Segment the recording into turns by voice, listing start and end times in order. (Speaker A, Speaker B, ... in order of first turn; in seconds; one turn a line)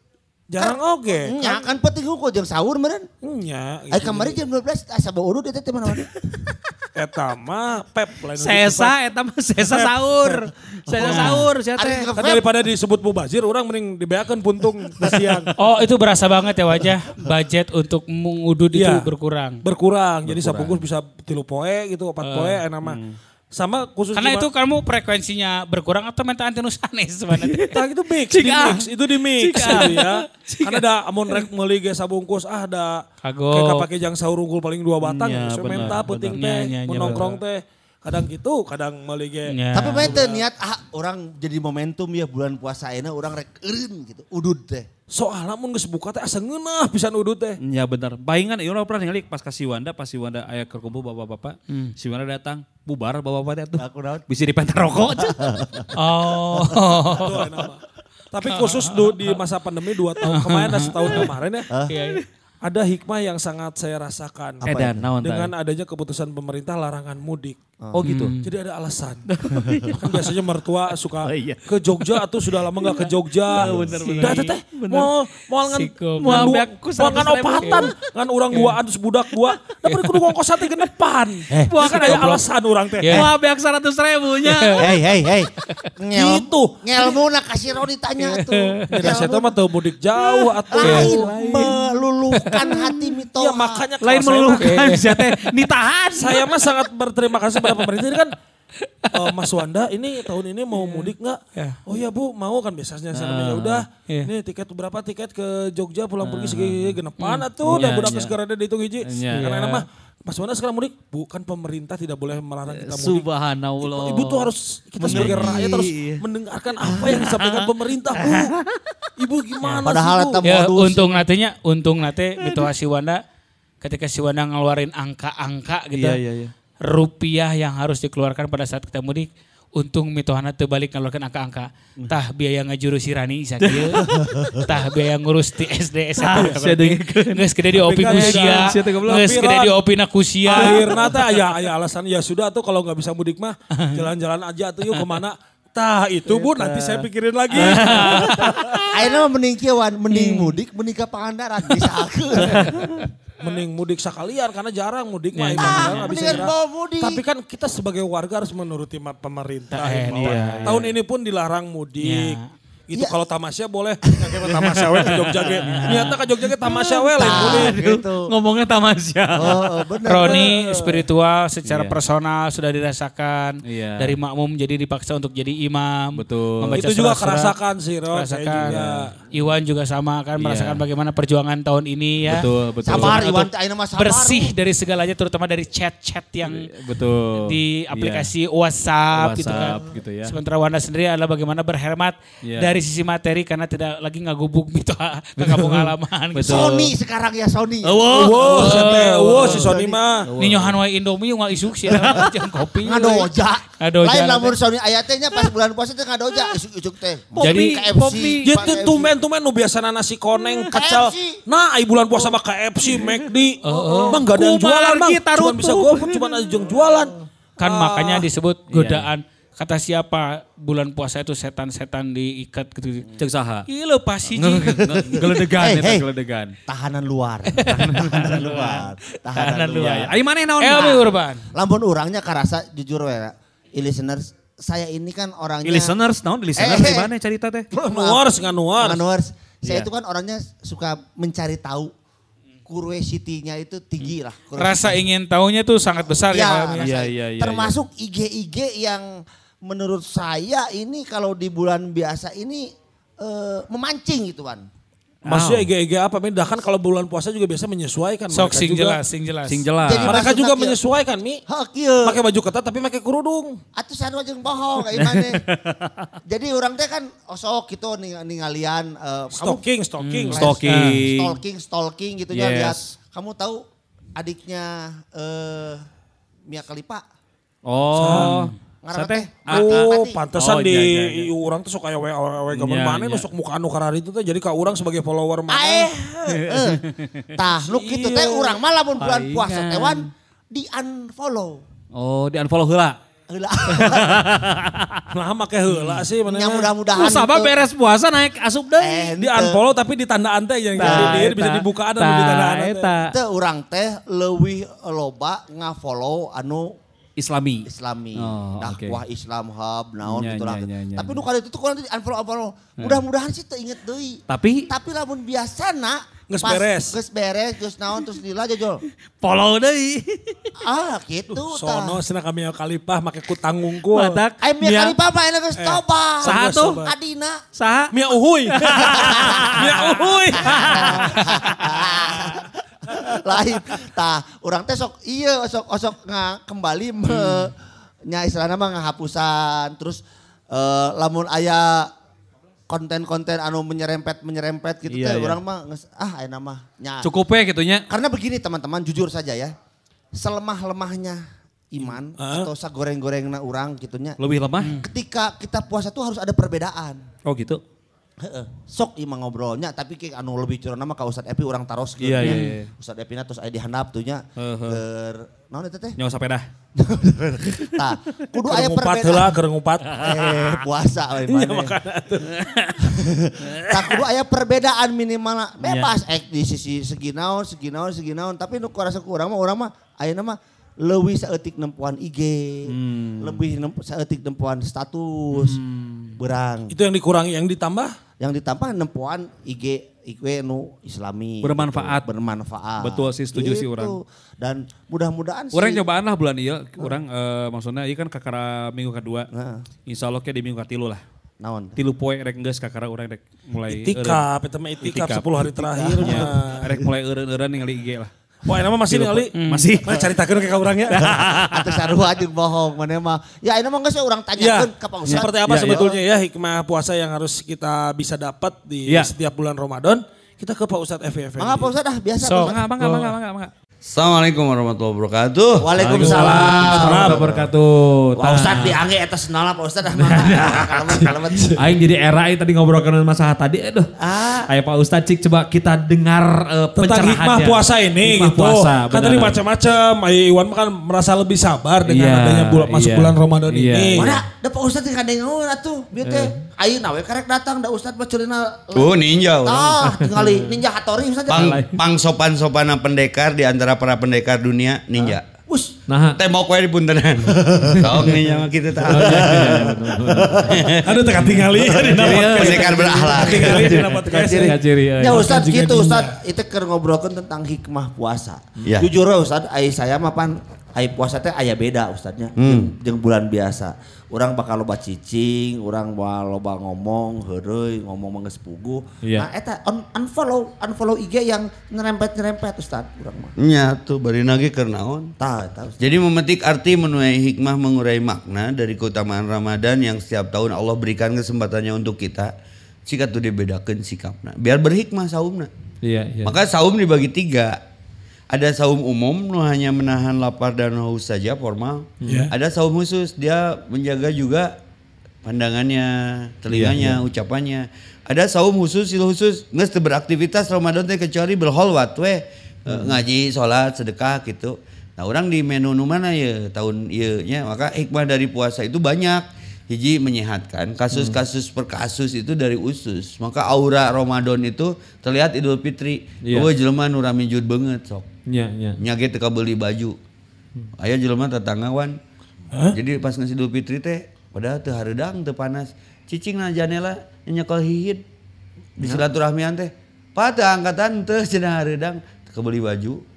Speaker A: 0.5-1.7
Speaker B: 0.6-3.1
Speaker A: 3.2-4.4
Speaker B: 3.9-6.7
Speaker A: 6.9-9.0
Speaker C: 8.3-12.1
Speaker A: 9.6-10.4
Speaker B: 10.9-12.4
Speaker D: 11.0-11.4
Speaker A: 12.1-15.5
Speaker D: 15.6-19.6
Speaker A: 18.7-19.1
Speaker A: 19.6-23.0
Speaker C: 20.2-20.8
Speaker D: 22.2-22.6
Speaker C: 22.8-23.1
Speaker A: 23.5-24.5
Speaker D: 24.1-27.8
Speaker A: 27.3-40.5
Speaker C: 28.3-30.2
Speaker D: 29.5-30.8
Speaker D: 33.2-33.9
Speaker C: 35.0-36.4
Speaker D: 35.7-37.3
Speaker C: 36.9-37.3
Speaker D: 39.5-40.1
Speaker B: 39.7-44.9
Speaker A: 45.1-47.6
Speaker C: 47.6-55.8
Speaker B: 53.8-54.2
Speaker B: 55.1-55.9
Speaker D: 55.9-57.5
Speaker A: 57.0-61.7
Speaker D: 58.4-59.3
Speaker D: 60.2-61.3
Speaker D: 61.9-62.2
Speaker A: 62.6-67.6
Speaker B: 64.6-65.1
Speaker C: 64.6-65.5
Speaker C: 67.9-68.3
Speaker D: 68.0-68.5
Speaker A: 68.4-69.3
Speaker C: 69.3-70.3
Speaker A: 70.0-83.3
Speaker C: 70.9-75.1
Speaker D: 73.9-74.5
Speaker D: 75.7-76.5
Speaker C: 76.2-78.0
Speaker D: 77.6-77.9
Speaker D: 78.5-78.8
Speaker D: 79.8-80.2
Speaker C: 81.6-82.2
Speaker D: 81.8-82.4
Speaker D: 83.0-83.3
Speaker C: 83.1-85.0
Speaker D: 84.4-84.9
Speaker B: 84.8-89.6
Speaker A: 86.1-87.0
Speaker D: 88.5-89.1
Speaker A: 88.9-91.3
Speaker B: 90.7-93.9
Speaker D: 90.8-91.1
Speaker C: 90.8-91.8
Speaker C: 92.4-92.9
Speaker A: 93.3-94.7
Speaker C: 94.0-96.4
Speaker D: 94.6-96.1
Speaker A: 96.1-98.3
Speaker A: 99.1-113.3
Speaker D: 100.8-101.8
Speaker C: 103.1-103.8
Speaker C: 106.2-108.3
Speaker C: 109.0-109.8
Speaker C: 112.7-116.2
Speaker A: 113.8-118.5
Speaker B: 115.0-115.7
Speaker C: 116.8-118.8
Speaker B: 116.8-117.2
Speaker A: 119.2-120.4
Speaker B: 119.8-121.0
Speaker D: 120.4-123.2
Speaker D: 123.8-126.2
Speaker C: 125.9-126.5
Speaker D: 126.8-140.8
Speaker C: 133.6-134.7
Speaker B: 134.1-134.4
Speaker C: 136.2-137.4
Speaker A: 137.8-139.7
Speaker C: 138.0-139.4
Speaker A: 140.4-148.9
Speaker C: 140.6-141.1
Speaker D: 143.7-144.0
Speaker C: 146.4-146.9
Speaker C: 147.5-148.5
Speaker D: 147.5-148.7
Speaker B: 148.9-152.8
Speaker D: 150.1-150.6
Speaker C: 152.4-153.0
Speaker A: 153.4-167.8
Speaker D: 155.3-156.4
Speaker B: 155.6-157.2
Speaker D: 159.7-160.8
Speaker C: 160.1-160.9
Speaker D: 162.0-162.5
Speaker B: 162.9-163.2
Speaker B: 164.1-164.4
Speaker C: 164.5-166.0
Speaker D: 165.7-166.1
Speaker C: 166.6-170.3
Speaker B: 167.2-168.2
Speaker B: 169.3-171.0
Speaker D: 170.1-177.5
Speaker A: 170.3-170.6
Speaker C: 171.7-171.9
Speaker C: 173.7-174.2
Speaker C: 176.1-176.8
Speaker A: 176.7-179.1
Speaker D: 178.1-178.8
Speaker C: 178.6-178.9
Speaker D: 179.3-186.6
Speaker C: 180.4-180.8
Speaker C: 182.3-183.2
Speaker B: 182.8-184.5
Speaker C: 186.4-188.3
Speaker D: 187.4-196.8
Speaker C: 189.2-190.3
Speaker C: 192.4-192.7
Speaker C: 196.3-196.9
Speaker B: 196.4-198.6
Speaker C: 197.8-199.7
Speaker A: 198.0-200.3
Speaker D: 198.4-199.6
Speaker B: 199.4-200.0
Speaker C: 200.2-200.8
Speaker D: 200.4-204.5
Speaker C: 201.9-202.3
Speaker B: 202.8-209.1
Speaker D: 207.4-208.4
Speaker A: 208.4-218.3
Speaker B: 210.7-211.4
Speaker D: 213.6-214.2
Speaker C: 214.0-216.4
Speaker D: 217.6-223.1
Speaker C: 218.7-219.1
Speaker C: 223.2-223.6
Speaker D: 223.7-224.9
Speaker C: 224.3-226.5
Speaker B: 224.8-226.1
Speaker B: 226.7-230.1
Speaker D: 227.5-230.1
Speaker C: 227.8-228.4
Speaker C: 229.8-231.0
Speaker D: 230.6-231.4
Speaker B: 230.7-235.9
Speaker C: 235.6-237.7
Speaker B: 236.5-237.1
Speaker B: 237.7-241.9
Speaker A: 237.8-239.0
Speaker C: 239.6-239.9
Speaker B: 242.7-245.0
Speaker D: 244.0-246.9
Speaker B: 246.3-254.6
Speaker C: 246.8-247.8
Speaker C: 255.2-255.7
Speaker A: 255.2-259.0
Speaker D: 258.3-259.6
Speaker C: 259.4-260.2
Speaker B: 259.8-260.8
Speaker A: 260.0-261.4
Speaker B: 261.5-262.2
Speaker A: 262.0-263.6
Speaker B: 263.8-265.4
Speaker C: 264.8-265.9
Speaker B: 266.2-269.6
Speaker A: 269.3-270.6
Speaker C: 270.0-271.4
Speaker B: 270.3-273.6
Speaker C: 272.3-272.8
Speaker B: 274.1-275.8
Speaker B: 276.5-277.0
Speaker C: 277.6-281.3
Speaker A: 277.9-278.5
Speaker D: 278.1-278.5
Speaker B: 278.8-280.2
Speaker A: 279.4-285.9
Speaker C: 282.5-283.3
Speaker B: 285.5-286.8
Speaker C: 286.4-287.3
Speaker B: 287.3-291.6
Speaker A: 287.6-288.6
Speaker C: 289.0-290.1
Speaker C: 291.9-293.0
Speaker B: 293.3-294.3
Speaker C: 293.7-295.0
Speaker A: 295.1-296.7
Speaker C: 295.7-296.0
Speaker B: 296.2-297.5
Speaker C: 296.9-299.1
Speaker B: 298.8-299.6
Speaker A: 299.1-303.0
Speaker C: 300.7-303.1
Speaker B: 300.8-301.2
Speaker B: 303.0-306.7
Speaker C: 307.2-309.0
Speaker B: 307.6-318.8
Speaker C: 310.0-311.2
Speaker C: 314.3-314.7
Speaker A: 316.3-317.0
Speaker C: 319.2-320.5
Speaker B: 320.6-322.0
Speaker A: 321.3-324.2
Speaker C: 323.8-325.0
Speaker B: 324.4-327.4
Speaker A: 325.5-326.9
Speaker C: 326.2-326.8
Speaker C: 327.5-327.9
Speaker A: 327.9-331.2
Speaker C: 328.5-331.8
Speaker B: 328.8-329.5
Speaker B: 330.3-341.9
Speaker C: 337.1-337.5
Speaker B: 342.7-347.1
Speaker C: 344.9-345.4
Speaker C: 347.0-347.8
Speaker B: 347.9-349.5
Speaker B: 350.1-354.2
Speaker A: 351.9-352.5
Speaker C: 354.2-354.8
Speaker B: 354.8-357.0
Speaker C: 357.2-357.6
Speaker B: 358.2-366.0
Speaker C: 362.0-362.7
Speaker D: 362.2-362.5
Speaker C: 364.4-364.8
Speaker C: 366.0-366.4
Speaker B: 366.8-369.4
Speaker A: 368.4-370.0
Speaker C: 369.8-370.6
Speaker B: 369.9-371.8
Speaker A: 371.2-372.4
Speaker C: 372.2-372.8
Speaker B: 372.8-385.6
Speaker C: 375.6-376.0
Speaker C: 382.7-383.5
Speaker C: 385.3-386.1
Speaker B: 386.1-386.7
Speaker A: 386.7-387.9
Speaker B: 388.2-395.9
Speaker C: 391.4-392.1
Speaker C: 392.8-394.0
Speaker C: 395.5-399.3
Speaker B: 399.3-399.7
Speaker C: 399.9-401.0
Speaker B: 401.4-401.8
Speaker C: 401.8-404.2
Speaker A: 403.7-406.6
Speaker C: 404.8-405.3
Speaker B: 405.5-406.9
Speaker C: 406.0-408.1
Speaker A: 408.5-409.3
Speaker C: 408.9-410.2
Speaker D: 409.3-409.7
Speaker A: 409.8-411.3
Speaker C: 410.9-411.9
Speaker B: 411.0-416.0
Speaker A: 414.4-421.7
Speaker C: 415.0-415.9
Speaker C: 418.9-419.1
Speaker B: 421.4-422.6
Speaker D: 422.2-422.6
Speaker C: 422.4-423.5
Speaker E: 423.8-426.7
Speaker B: 425.6-427.5
Speaker C: 425.8-428.8
Speaker A: 426.7-427.2
Speaker B: 428.1-431.5
Speaker C: 429.9-430.9
Speaker A: 430.9-431.6
Speaker C: 431.6-439.4
Speaker B: 434.0-434.5
Speaker A: 436.7-444.2
Speaker C: 441.9-444.2
Speaker B: 443.9-451.5
Speaker C: 446.0-446.4
Speaker E: 448.7-449.9
Speaker C: 449.9-450.5
Speaker E: 451.3-455.2
Speaker C: 451.4-451.8
Speaker B: 454.9-455.7
Speaker C: 455.9-456.2
Speaker E: 456.1-460.9
Speaker B: 457.3-458.1
Speaker C: 457.6-458.2
Speaker C: 458.8-465.4
Speaker B: 458.9-460.8
Speaker A: 460.8-466.2
Speaker B: 461.6-461.9
Speaker E: 461.9-463.8
Speaker B: 462.8-483.3
Speaker E: 468.6-468.9
Speaker E: 472.4-472.7
Speaker E: 483.4-485.1
Speaker B: 485.2-485.8
Speaker E: 485.8-492.3
Speaker E: 492.9-495.5
Speaker C: 495.8-496.4
Speaker E: 496.2-497.6
Speaker E: 498.3-504.5
Speaker C: 502.0-502.3
Speaker A: 502.1-502.3
Speaker E: 505.2-528.1
Speaker C: 506.5-507.0
Speaker C: 512.7-513.0
Speaker C: 520.9-521.2
Speaker C: 526.2-526.5
Speaker C: 528.3-528.8
Speaker E: 528.8-530.0
Speaker E: 530.8-532.0
Speaker E: 532.7-538.0
Speaker E: 538.8-543.0